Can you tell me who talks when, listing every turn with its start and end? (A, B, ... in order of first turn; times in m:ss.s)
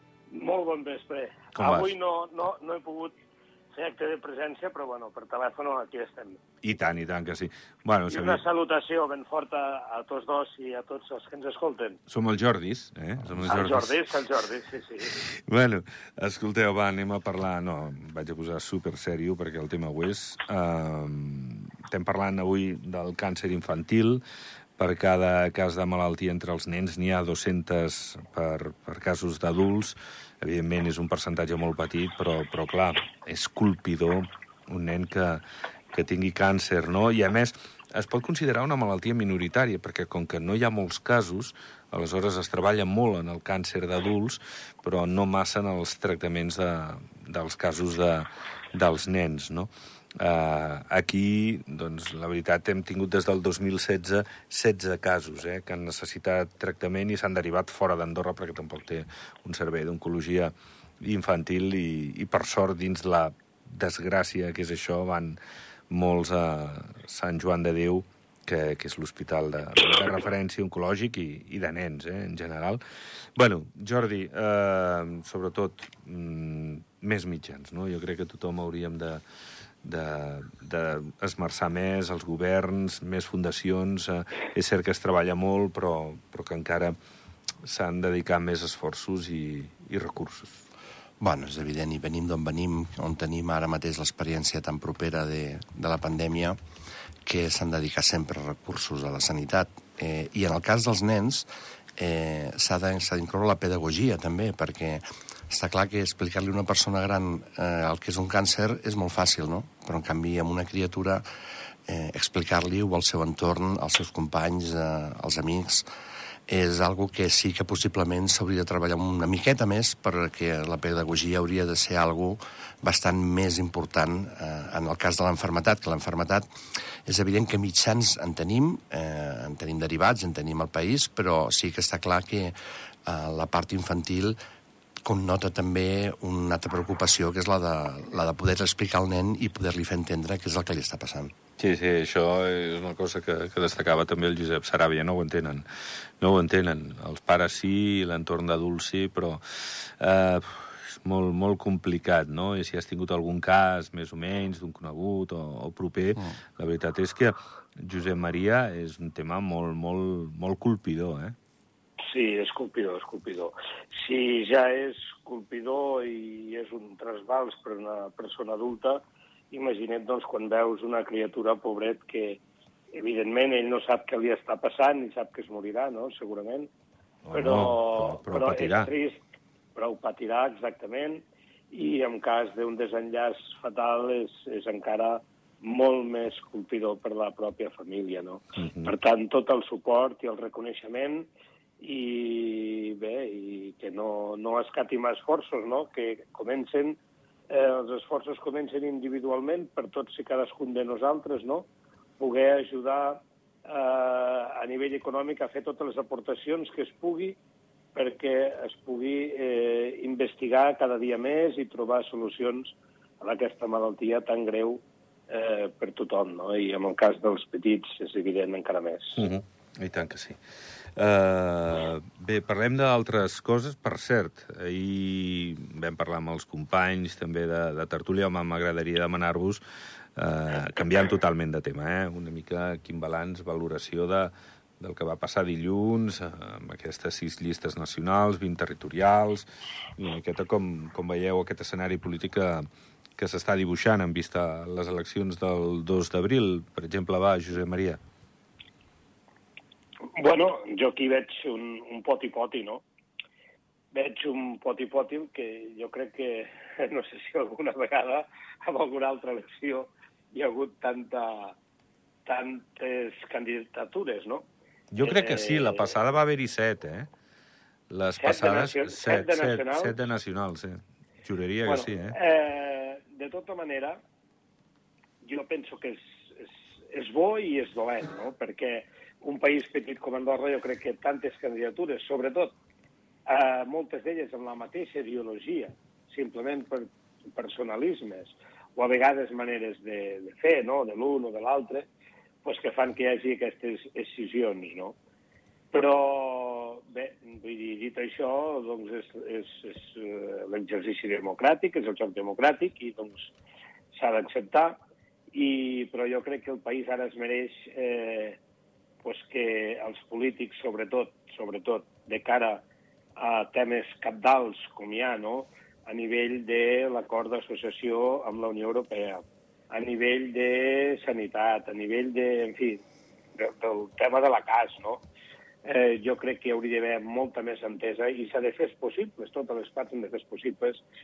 0:00.3-0:03.1 A
0:01.6-0:01.9 B
0:03.7-0:06.4 A
0:06.6-0:08.4 B
0:08.1-0:12.0 A
0:12.1-0:14.2 B
0:13.4-0:15.1 A
0:15.0-0:24.2 B
0:24.8-1:05.4 B
1:05.9-1:12.8 B
1:13.3-1:19.2 B
1:19.8-1:27.0 B
1:27.6-1:30.6 B
1:31.2-1:36.6 C
1:37.2-1:51.2 C
1:51.8-1:55.8 C
1:56.5-2:06.5 C
2:07.1-2:14.4 C
2:15.0-2:21.3 C
2:21.6-2:25.6 B
2:26.2-2:41.4 B
2:42.0-2:52.4 A
2:52.9-2:56.7 A
2:57.2-2:58.9 B
2:57.3-2:59.2 A
2:59.8-3:21.7 A
3:08.6-3:08.9 B
3:22.2-3:27.4 A
3:27.9-3:39.2 A
3:39.2-3:40.4 B
3:40.9-3:49.6 B
3:50.2-4:02.7 B
4:03.2-4:08.0 B
4:10.1-4:12.8 A
4:13.9-4:21.6 A
4:22.2-4:24.4 A
4:24.9-4:27.1 B
4:25.0-4:25.8 A
4:27.9-4:32.2 B
4:28.2-4:29.9 A
4:31.6-4:34.0 A
4:35.2-4:42.5 A
4:43.2-4:51.9 A
4:52.4-4:55.0 A
4:55.7-5:03.3 A
5:03.9-5:04.8 A
5:05.3-5:08.4 A
5:09.0-5:12.6 A
5:13.2-5:22.8 A
5:23.4-5:25.0 A
5:25.6-5:30.8 A